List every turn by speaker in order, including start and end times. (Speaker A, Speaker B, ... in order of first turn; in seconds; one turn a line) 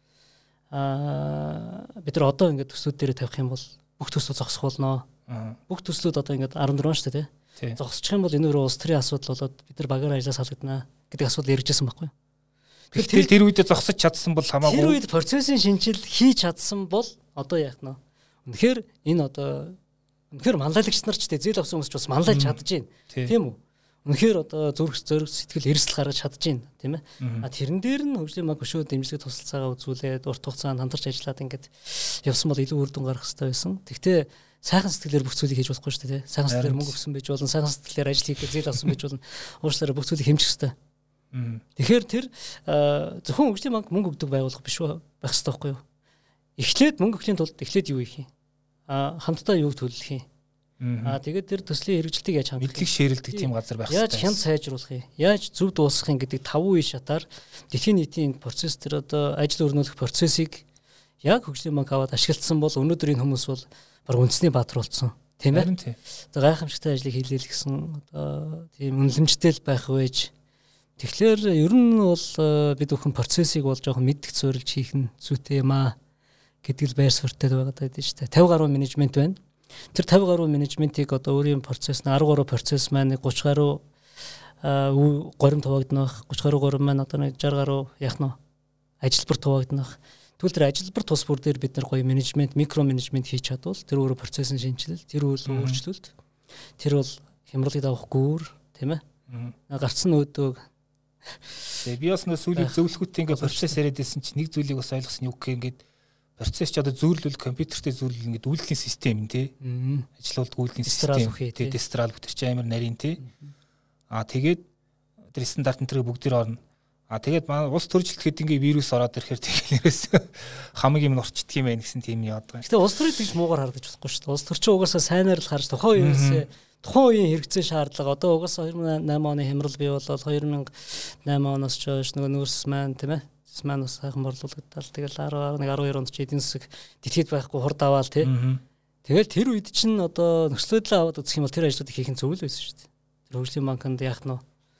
Speaker A: 0.7-5.1
Speaker B: 5.3-5.6
Speaker A: 5.7-12.1
Speaker A: 12.9-13.3
Speaker B: 12.9-15.0
Speaker A: 14.6-19.8
Speaker A: 20.3-40.8
Speaker B: 22.3-22.6
Speaker B: 27.2-27.5
Speaker B: 36.5-37.0
Speaker B: 41.3-41.6
Speaker A: 41.8-45.8
Speaker A: 46.6-48.3
Speaker A: 48.9-50.3
Speaker B: 50.8-51.2
Speaker A: 51.0-60.6
Speaker B: 52.6-54.4
Speaker A: 61.2-65.7
Speaker B: 65.5-66.0
Speaker A: 66.3-70.3
Speaker A: 71.0-76.0
Speaker A: 76.6-79.4
Speaker A: 79.9-83.8
Speaker A: 84.6-88.4
Speaker A: 89.0-96.1
Speaker B: 95.5-95.8
Speaker A: 96.8-99.0
Speaker B: 99.3-99.5
Speaker A: 99.7-100.7
Speaker A: 101.3-101.8
Speaker B: 101.8-105.8
Speaker A: 102.5-103.8
Speaker B: 106.4-109.5
Speaker A: 109.6-110.1
Speaker B: 110.2-113.2
Speaker A: 110.8-111.8
Speaker A: 113.2-113.5
Speaker B: 114.1-114.6
Speaker B: 115.3-122.7
Speaker A: 122.6-138.3
Speaker B: 126.0-126.5
Speaker B: 138.2-138.6
Speaker A: 139.1-144.4